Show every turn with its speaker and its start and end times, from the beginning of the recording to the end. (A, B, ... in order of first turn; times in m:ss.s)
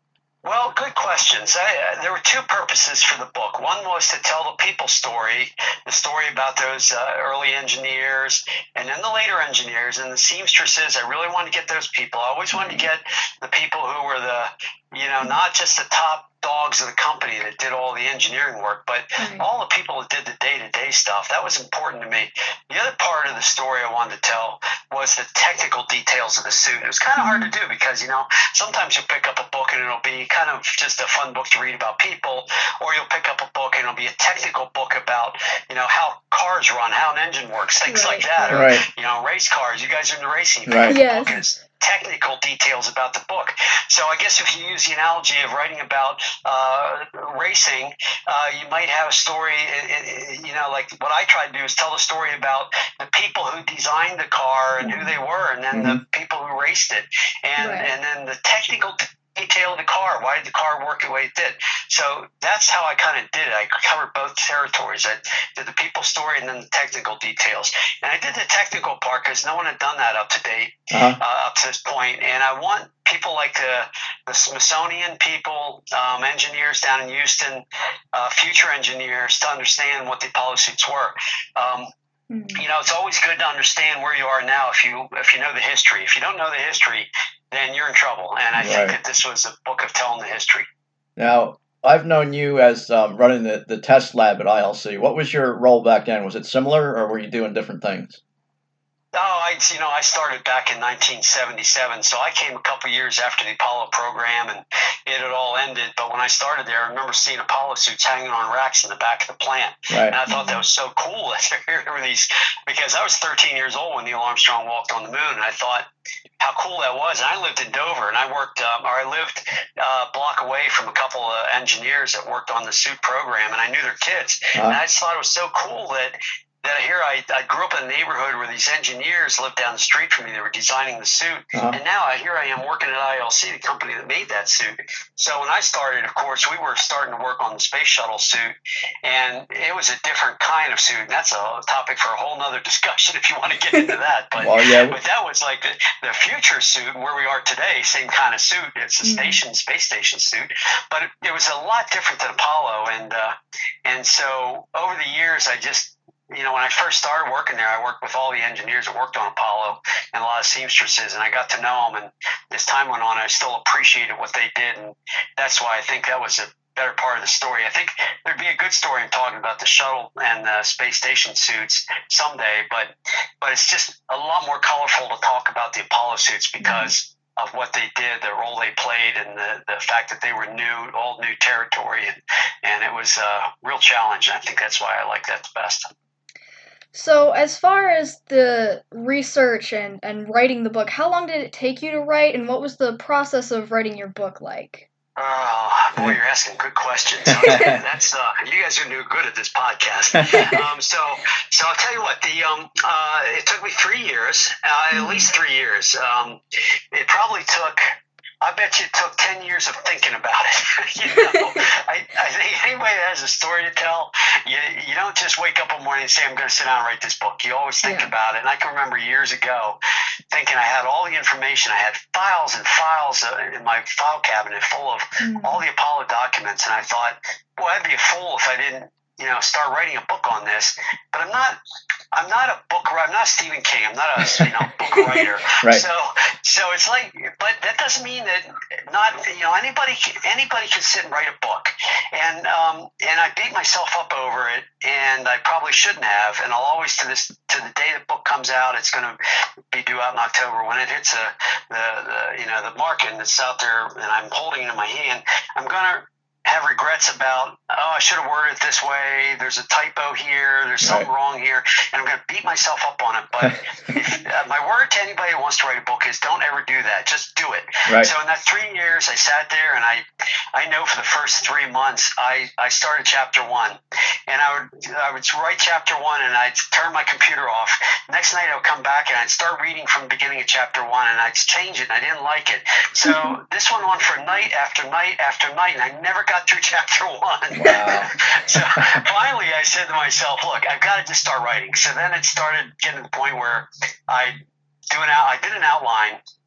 0:00.4-1:21.9 A
0:12.5-0:12.9 B
0:19.2-0:19.5 B
0:27.2-0:27.5 B
0:37.8-0:38.6 B
0:38.5-0:38.9 C
0:40.7-0:41.0 C
0:40.9-0:41.4 B
0:54.8-0:55.1 B
0:55.7-0:56.0 C
0:57.6-0:57.9 B
1:10.9-1:11.2 C
1:22.3-1:22.6 B
1:22.6-1:30.7 A
1:28.6-1:29.0 C
1:31.2-1:38.2 C
1:39.1-1:55.9 A
1:49.9-1:50.2 C
1:50.3-1:50.6 B
1:56.4-2:18.5 A
2:04.5-2:04.8 C
2:19.0-2:33.3 A
2:24.4-2:25.0 C
2:29.0-2:29.4 B
2:33.8-3:05.9 A
2:56.6-2:56.9 B
3:06.9-3:14.9 B
3:15.2-3:26.4 A
3:17.3-3:17.8 C
3:20.1-3:20.6 C
3:24.9-3:25.3 B
3:26.9-3:27.9 A
3:28.4-3:39.8 A
3:31.1-3:31.6 B
3:37.8-3:38.1 B
3:40.3-3:51.6 A
3:45.2-3:45.6 B
3:52.1-4:09.2 A
3:54.2-3:54.5 C
4:09.7-4:30.0 A
4:20.8-4:21.1 C
4:27.9-4:28.1 C
4:30.5-4:54.4 A
4:43.0-4:43.4 B
4:47.5-4:49.0 C
4:47.6-4:47.9 B
4:54.9-4:56.2 A